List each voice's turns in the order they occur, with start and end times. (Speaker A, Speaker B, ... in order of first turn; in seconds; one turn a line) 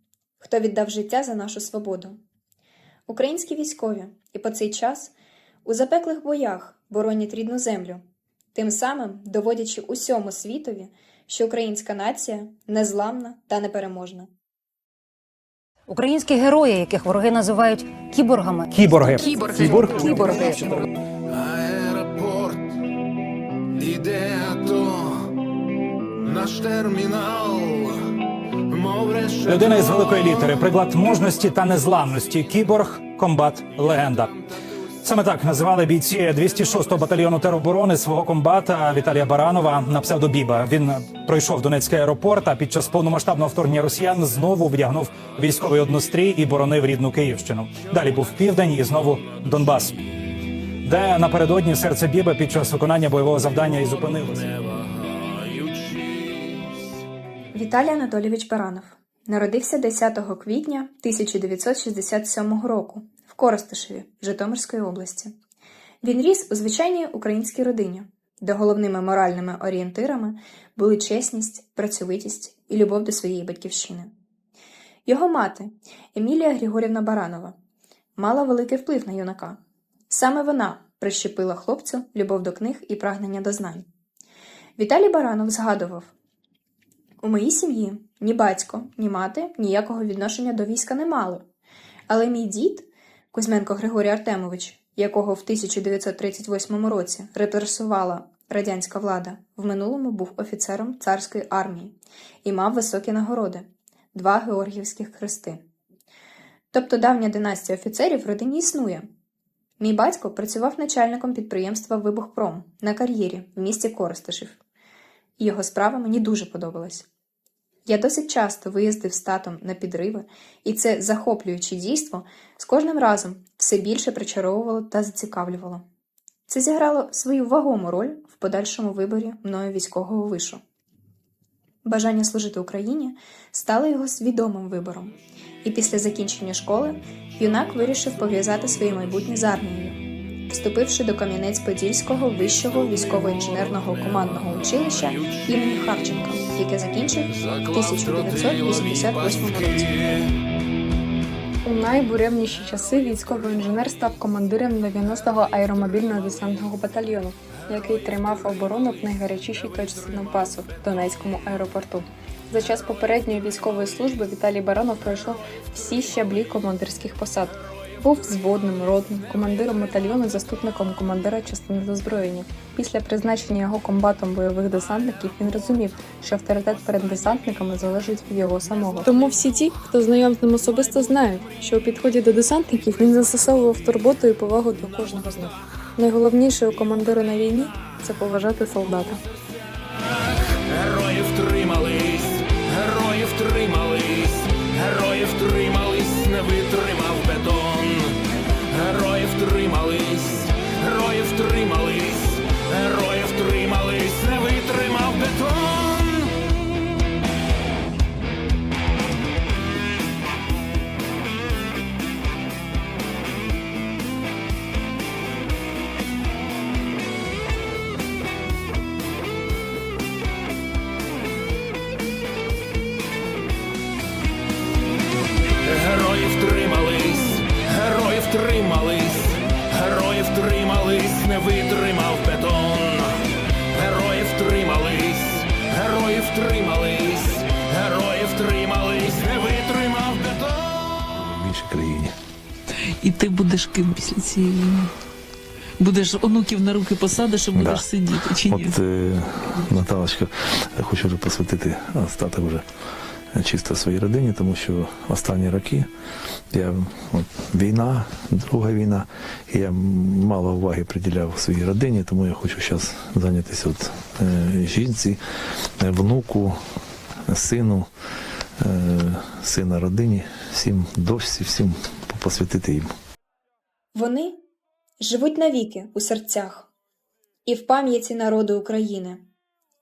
Speaker A: 0.4-2.1
Speaker A: 3.1-5.1
Speaker A: 5.6-8.0
Speaker A: 8.5-14.3
Speaker B: 15.9-20.8
Speaker C: 18.7-20.8
Speaker D: 21.3-22.7
Speaker D: 23.8-25.4
Speaker D: 26.2-30.6
Speaker C: 29.4-34.3
Speaker C: 35.0-49.9
Speaker C: 50.8-54.5
Speaker D: 54.5-56.7
Speaker A: 57.5-65.3
Speaker A: 66.0-74.1
Speaker A: 75.0-77.5
Speaker A: 78.2-79.6
Speaker A: 80.1-83.8
Speaker A: 84.8-86.1
Speaker A: 87.2-91.4
Speaker A: 92.1-105.6
Speaker A: 106.7-109.0
Speaker A: 109.8-114.6
Speaker A: 115.4-117.1
Speaker A: 117.8-125.8
Speaker A: 126.5-130.6
Speaker A: 131.8-149.9
Speaker D: 143.4-145.5
Speaker D: 147.4-150.3
Speaker E: 151.6-189.2
Speaker D: 158.5-158.9
Speaker D: 190.3-206.3
Speaker D: 225.6-241.2
Speaker F: 241.2-242.1
Speaker G: 243.0-244.9
Speaker G: 245.8-248.7
Speaker F: 247.5-247.8
Speaker F: 248.5-252.6
Speaker F: 253.3-255.9
Speaker F: 256.5-265.2
Speaker F: 265.8-266.6
Speaker F: 267.3-267.9
Speaker F: 268.6-272.9
Speaker A: 273.9-274.4
Speaker A: 275.0-276.7
Speaker A: 277.4-279.2